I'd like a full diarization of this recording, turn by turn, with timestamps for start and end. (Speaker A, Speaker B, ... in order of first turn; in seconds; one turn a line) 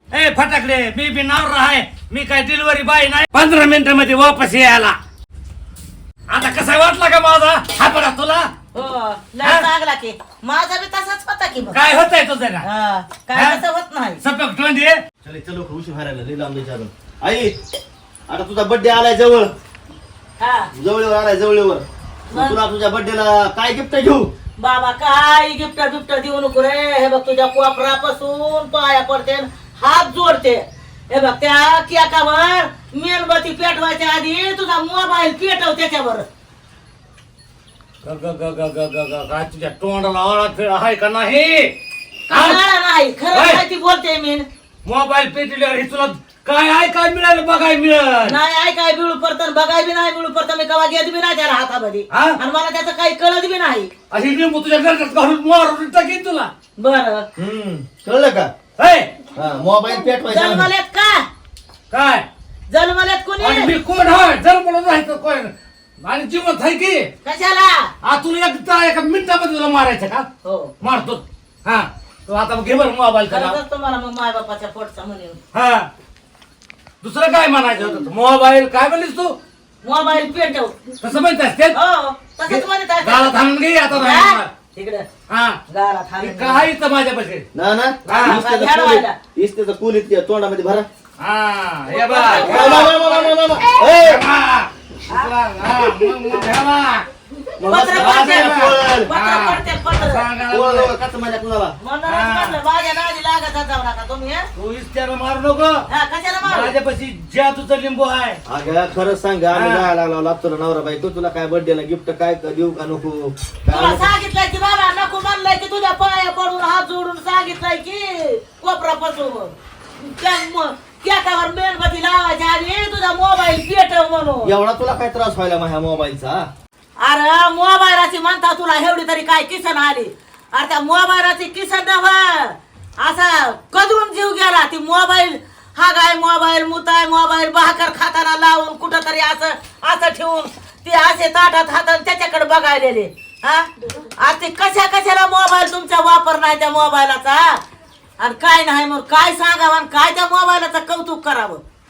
Speaker A: 0.1-5.0
Speaker A: 6.3-8.5
Speaker B: 8.7-11.8
Speaker A: 11.7-12.6
Speaker B: 12.6-14.2
Speaker A: 13.3-13.6
Speaker A: 14.2-15.0
Speaker C: 15.2-17.6
Speaker C: 18.3-19.5
Speaker B: 20.4-20.7
Speaker C: 20.7-24.3
Speaker B: 22.3-22.6
Speaker B: 24.6-36.2
Speaker A: 38.0-41.7
Speaker B: 42.3-44.4
Speaker A: 42.3-42.6
Speaker A: 43.3-43.6
Speaker A: 44.8-48.4
Speaker B: 48.2-53.9
Speaker A: 52.1-52.4
Speaker A: 54.1-56.5
Speaker B: 56.8-57.2
Speaker C: 57.4-58.5
Speaker A: 58.8-59.1
Speaker C: 59.3-60.7
Speaker B: 60.3-61.2
Speaker A: 61.9-62.2
Speaker B: 62.7-63.7
Speaker A: 63.4-67.1
Speaker B: 67.2-67.9
Speaker A: 68.0-70.3
Speaker B: 70.4-70.7
Speaker A: 70.8-73.6
Speaker B: 73.3-75.4
Speaker A: 75.5-75.9
Speaker A: 77.0-79.4
Speaker B: 79.8-80.8
Speaker A: 81.0-81.8
Speaker B: 81.7-85.1
Speaker A: 82.5-84.5
Speaker A: 85.3-85.6
Speaker B: 85.7-86.7
Speaker A: 86.2-87.5
Speaker C: 87.5-90.9
Speaker A: 88.1-88.4
Speaker B: 88.1-89.2
Speaker A: 91.2-92.9
Speaker B: 91.9-93.4
Speaker C: 92.4-94.2
Speaker A: 94.0-97.0
Speaker C: 97.6-99.1
Speaker B: 97.6-100.2
Speaker A: 97.9-100.9
Speaker C: 100.5-101.7
Speaker B: 101.8-104.5
Speaker A: 102.1-102.6
Speaker A: 104.5-105.8
Speaker B: 105.9-106.7
Speaker A: 106.4-108.4
Speaker C: 108.5-114.1
Speaker A: 109.5-109.9
Speaker B: 113.7-124.5
Speaker C: 124.4-126.5
Speaker B: 127.0-147.6
Speaker B: 148.2-151.6